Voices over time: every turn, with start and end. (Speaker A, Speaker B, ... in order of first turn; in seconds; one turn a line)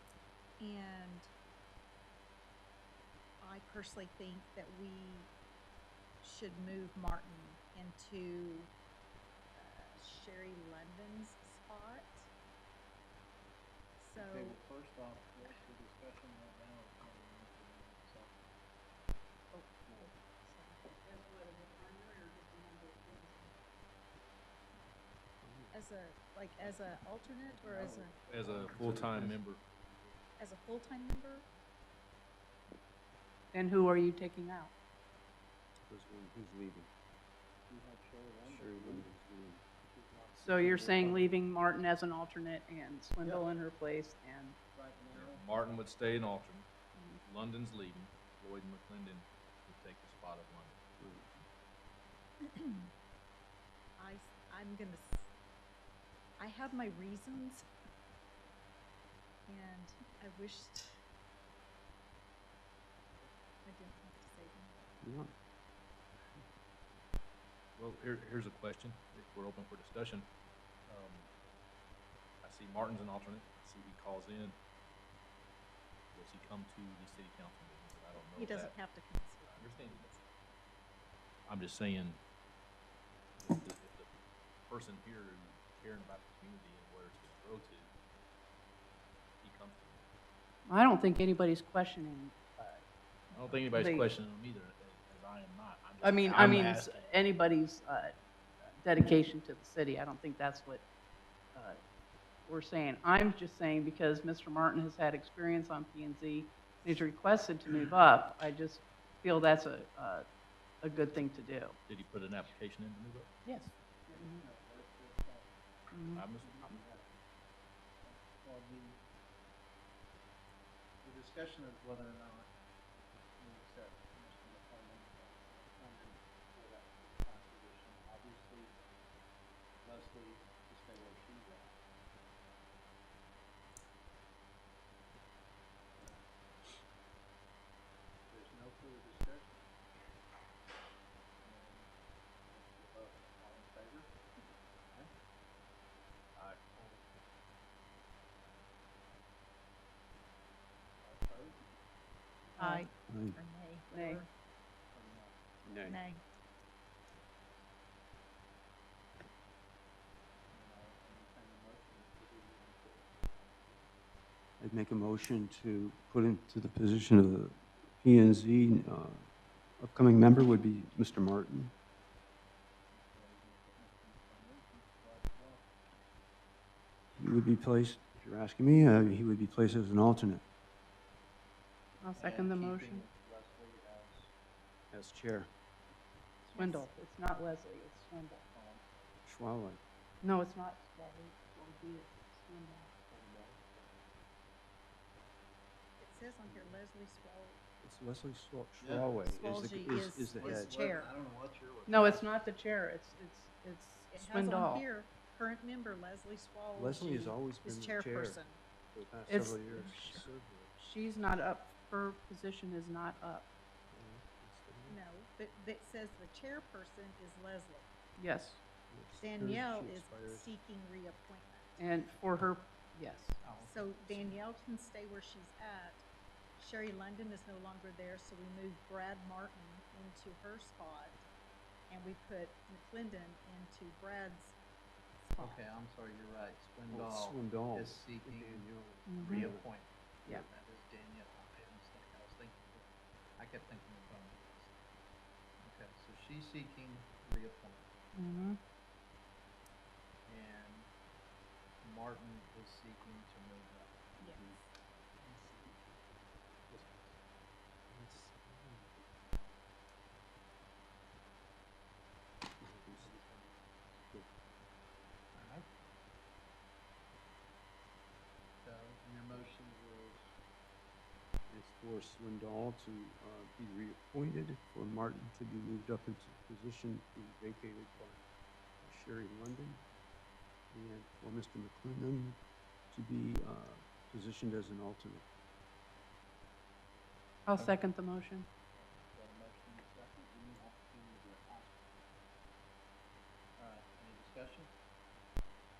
Speaker A: 0.6-1.3
Speaker A: 3.4-5.3
Speaker A: 6.2-8.7
Speaker A: 9.5-12.3
Speaker A: 14.0-14.6
Speaker B: 14.2-18.5
Speaker A: 19.5-20.9
Speaker C: 20.9-23.5
Speaker D: 25.4-25.8
Speaker A: 25.7-28.1
Speaker B: 27.5-29.3
Speaker E: 28.3-29.6
Speaker D: 28.6-29.4
Speaker A: 30.4-31.5
Speaker C: 33.5-34.7
Speaker D: 35.9-36.9
Speaker B: 37.7-39.1
Speaker D: 38.4-39.6
Speaker B: 39.8-41.2
Speaker C: 40.4-44.6
Speaker D: 40.6-41.3
Speaker B: 43.2-43.5
Speaker B: 44.7-45.4
Speaker E: 45.1-46.7
Speaker C: 46.9-47.2
Speaker E: 47.2-50.8
Speaker D: 51.0-51.3
Speaker A: 52.4-52.9
Speaker A: 54.0-55.3
Speaker A: 56.4-57.7
Speaker A: 59.5-61.0
Speaker A: 63.6-65.0
Speaker D: 65.0-65.3
Speaker E: 67.8-70.3
Speaker E: 70.9-71.3
Speaker E: 72.4-74.6
Speaker E: 76.1-78.7
Speaker A: 78.3-79.9
Speaker E: 79.4-80.3
Speaker E: 81.5-82.2
Speaker E: 83.4-84.1
Speaker E: 84.7-87.9
Speaker E: 89.4-90.1
Speaker C: 90.7-92.8
Speaker E: 93.3-97.1
Speaker C: 93.7-94.1
Speaker C: 96.0-98.2
Speaker C: 98.8-100.8
Speaker C: 101.5-101.8
Speaker C: 102.5-110.2
Speaker C: 110.8-111.8
Speaker E: 111.9-113.3
Speaker C: 113.4-114.4
Speaker B: 114.1-115.5
Speaker C: 115.9-116.2
Speaker E: 116.1-116.8
Speaker B: 116.3-117.1
Speaker B: 118.0-119.0
Speaker B: 121.0-122.5
Speaker B: 123.4-128.7
Speaker B: 129.8-131.7
Speaker B: 135.9-136.2
Speaker B: 138.3-139.6
Speaker B: 141.4-141.9
Speaker B: 142.5-144.1
Speaker E: 146.3-146.6
Speaker B: 146.7-147.1
Speaker B: 151.0-151.8
Speaker C: 152.6-152.9
Speaker A: 152.6-154.3
Speaker D: 153.1-153.4
Speaker C: 153.9-154.2
Speaker B: 154.9-155.4
Speaker D: 155.6-156.0
Speaker A: 155.8-156.2
Speaker B: 160.5-163.8
Speaker D: 164.6-169.3
Speaker D: 169.8-171.7
Speaker B: 172.9-175.7
Speaker D: 177.2-180.4
Speaker C: 182.0-183.0
Speaker B: 182.1-184.3
Speaker D: 184.9-185.5
Speaker C: 186.4-188.5
Speaker A: 186.6-186.9
Speaker B: 188.5-188.8
Speaker D: 189.2-189.8
Speaker C: 190.2-192.9
Speaker B: 193.1-194.1
Speaker A: 196.0-197.6
Speaker D: 197.8-200.7
Speaker B: 198.8-199.1
Speaker A: 199.2-201.1
Speaker B: 200.3-202.3
Speaker C: 201.9-204.8
Speaker A: 204.1-208.6
Speaker D: 206.7-208.4
Speaker D: 208.9-210.7
Speaker C: 209.3-210.3
Speaker C: 210.8-213.5
Speaker D: 213.9-215.0
Speaker A: 214.9-217.9
Speaker C: 218.2-218.6
Speaker D: 218.9-220.5
Speaker A: 219.2-221.8
Speaker C: 221.8-223.4
Speaker B: 223.4-224.4
Speaker A: 223.6-226.0
Speaker A: 226.6-231.2
Speaker A: 231.9-234.6
Speaker A: 235.2-235.6
Speaker B: 235.4-242.8
Speaker D: 236.9-239.7
Speaker C: 239.1-239.5
Speaker B: 243.4-244.8
Speaker B: 245.6-247.9
Speaker C: 248.1-248.6
Speaker B: 250.2-250.9
Speaker B: 251.8-254.2
Speaker A: 254.2-254.6
Speaker D: 255.2-255.7
Speaker D: 257.9-259.0
Speaker D: 262.6-263.1
Speaker B: 262.9-264.1
Speaker B: 265.3-265.6
Speaker B: 268.6-270.3
Speaker D: 271.5-278.2
Speaker D: 278.8-279.8
Speaker D: 280.7-282.4
Speaker D: 282.9-285.2
Speaker C: 287.4-288.5
Speaker B: 288.7-292.0
Speaker B: 293.6-294.7